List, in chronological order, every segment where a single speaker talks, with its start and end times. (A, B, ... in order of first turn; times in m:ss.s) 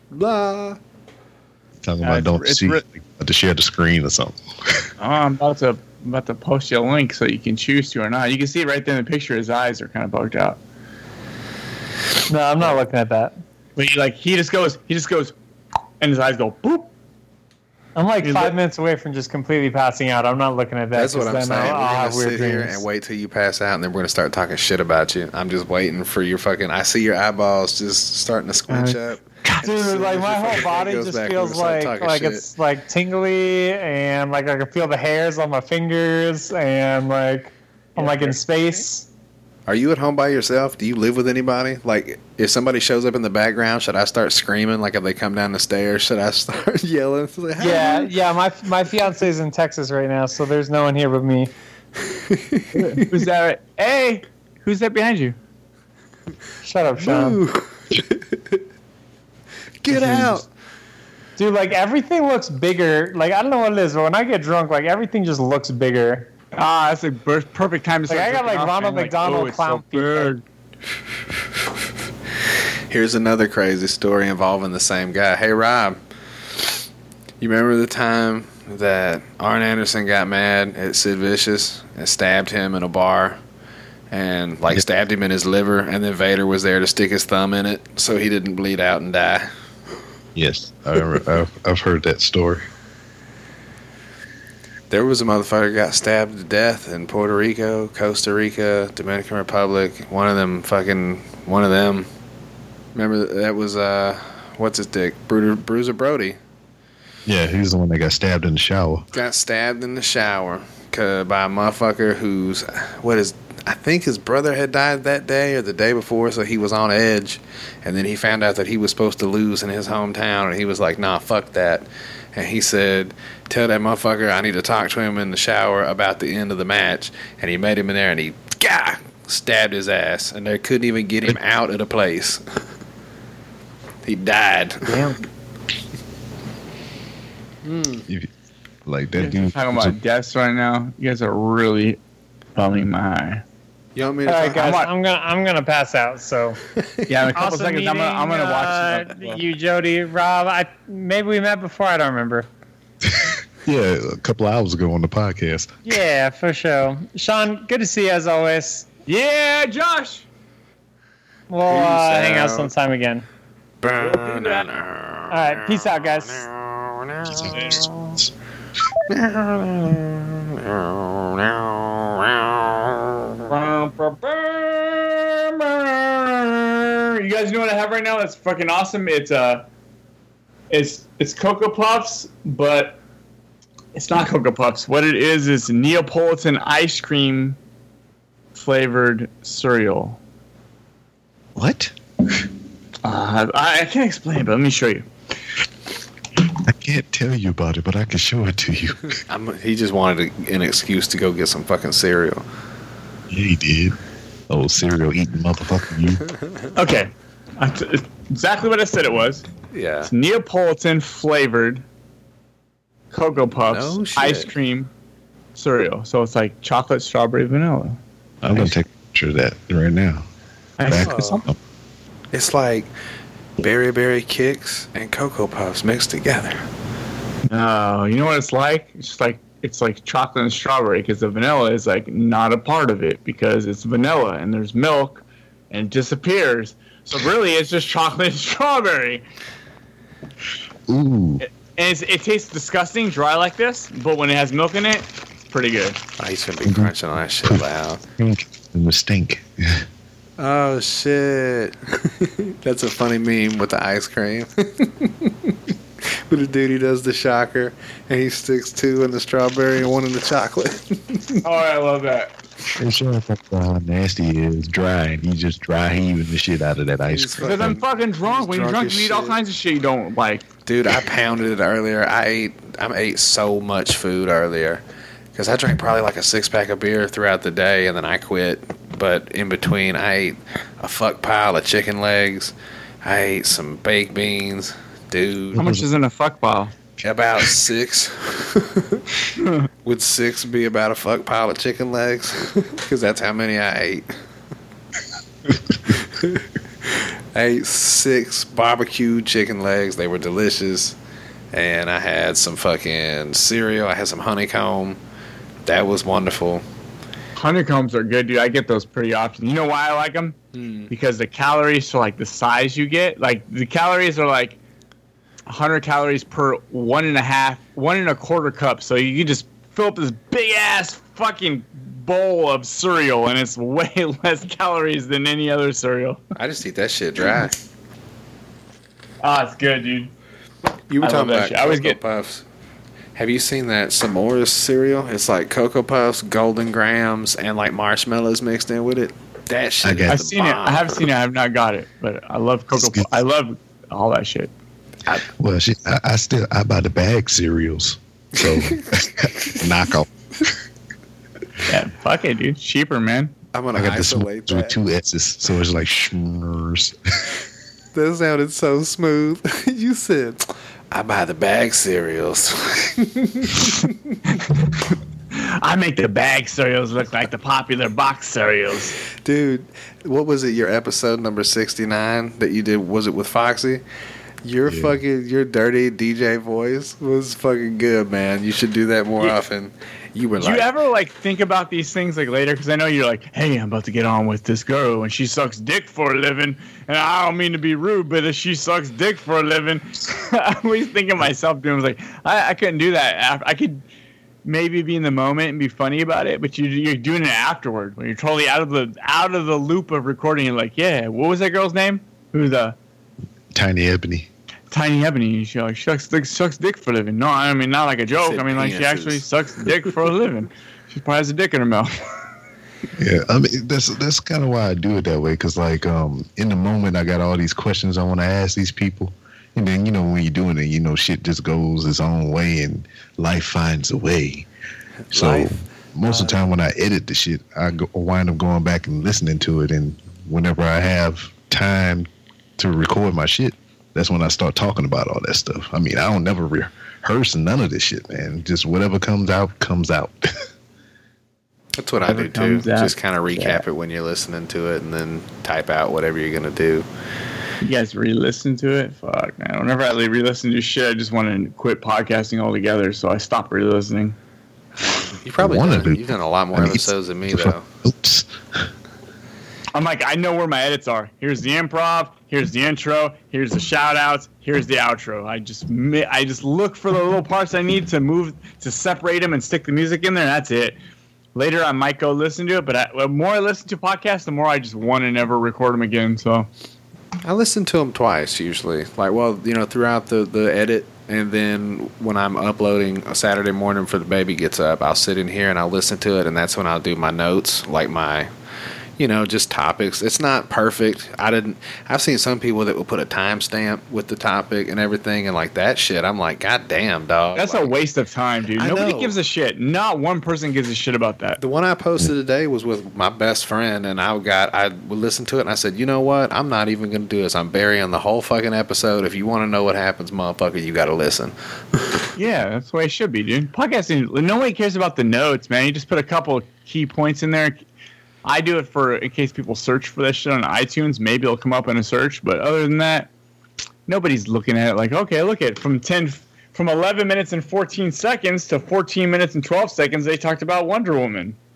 0:00.1-0:00.8 A
0:01.8-0:04.9 B
0:02.0-0:02.8 C
0:05.0-0:10.6 C
0:12.3-0:13.4 D
0:13.8-0:15.3 C
0:16.0-0:16.9 C
0:18.0-0:22.8 D
0:18.2-0:18.6 C
0:20.9-0:32.4 A
0:28.7-0:29.6 C
0:29.6-0:39.1 D
0:38.0-0:38.4 C
0:39.7-0:48.1 A
0:47.6-0:51.5 D
0:52.1-0:53.2 A
0:52.7-0:55.4 C
0:56.6-0:57.4 D
0:57.0-0:58.6 A
0:59.8-1:00.5 A
0:59.9-1:00.4 C
1:01.4-1:06.3 D
1:06.5-1:10.4 C
1:08.1-1:10.3 D
1:12.9-1:16.0 A
1:17.4-1:23.4 A
1:24.1-1:29.5 A
1:30.4-1:32.7 B
1:34.9-1:42.1 A
1:43.0-1:46.4 A
1:47.3-1:49.1 B
1:49.1-2:12.4 A
2:14.1-2:15.0 A
2:14.9-2:15.2 C
2:17.6-2:18.0 A
2:18.9-2:20.0 B
2:19.2-2:22.0 C
2:22.6-2:23.4 C
2:24.0-2:24.8 A
2:24.3-2:26.6 D
2:24.5-2:24.9 C
2:27.1-2:29.4 C
2:27.3-2:32.5 D
2:33.1-2:35.8 B
2:35.9-2:38.9 D
2:39.1-2:40.3 C
2:41.5-2:43.2 D
2:41.7-2:42.7 A
2:43.8-2:48.2 A
2:44.0-2:44.7 C
2:45.3-2:46.5 D
2:47.3-2:48.2 B
2:47.6-2:47.8 C
2:49.1-2:53.4 A
2:53.5-2:59.7 C
3:00.7-3:03.0 C
3:04.0-3:07.6 C
3:08.5-3:10.2 C
3:11.6-3:11.9 B
3:13.0-3:15.1 C
3:16.6-3:19.2 B
3:19.3-3:22.4 A
3:23.3-3:24.0 B
3:24.5-3:26.2 B
3:26.8-3:29.5 C
3:29.7-3:30.1 A
3:30.0-3:31.8 C
3:33.1-3:34.9 C
3:33.6-3:34.5 A
3:35.6-3:38.7 C
3:38.4-3:40.2 B
3:40.8-3:41.5 C
3:40.9-3:41.6 B
3:41.0-3:41.4 A
3:42.3-3:42.9 A
3:43.6-3:46.6 A
3:47.5-3:59.2 C
4:00.9-4:01.4 B
4:01.7-4:06.0 C
4:06.2-4:08.0 A
4:06.6-4:06.9 B
4:08.2-4:09.9 B
4:10.4-4:15.5 A
4:16.3-4:21.4 A
4:21.4-4:22.3 C
4:22.8-4:27.8 B
4:27.1-4:29.4 A
4:27.4-4:30.4 C
4:30.7-4:34.8 A
4:35.4-4:45.6 A
4:45.6-4:45.9 B
4:45.6-4:46.7 C
4:47.0-4:49.0 A
4:49.4-4:49.7 C
4:49.8-4:54.1 A
4:55.9-4:56.4 A
4:57.3-5:01.0 A
5:01.5-5:05.0 A
5:05.7-5:06.6 A
5:07.4-5:10.4 C
5:10.5-5:10.9 A
5:10.9-5:14.6 C
5:15.5-5:26.2 C
5:26.4-5:27.6 A
5:29.2-5:30.1 C
5:30.9-5:32.4 A
5:31.0-5:32.0 C
5:33.2-5:41.0 A
5:39.8-5:40.2 B
5:40.1-5:44.5 C
5:42.7-5:43.1 B
5:45.4-5:50.1 B
5:48.4-5:49.6 A
5:51.6-5:53.3 C
5:53.5-5:54.7 A
5:53.8-5:57.3 B
5:57.9-6:03.9 A
6:04.4-6:04.7 C
6:05.3-6:09.0 C
6:09.2-6:13.8 A
6:14.4-6:20.7 A
6:14.7-6:15.0 B
6:20.4-6:33.8 C
6:34.4-6:42.8 C
6:43.5-6:44.3 B
6:44.7-6:52.0 C
6:48.2-6:49.2 A
6:53.0-7:04.5 B
7:05.1-7:05.6 A
7:05.1-7:20.5 B
7:21.8-7:26.9 A
7:22.0-7:23.6 C
7:27.6-7:34.2 C
7:34.8-7:37.6 A
7:35.4-7:36.0 B
7:36.5-7:38.7 B
7:39.7-7:50.8 C
7:51.4-7:56.5 C
7:57.2-8:08.3 A
8:09.0-8:17.7 A
8:17.4-8:21.4 C
8:18.6-8:19.1 A
8:21.4-8:32.0 A
8:32.2-8:37.6 C
8:38.2-8:43.1 C
8:43.9-8:51.4 C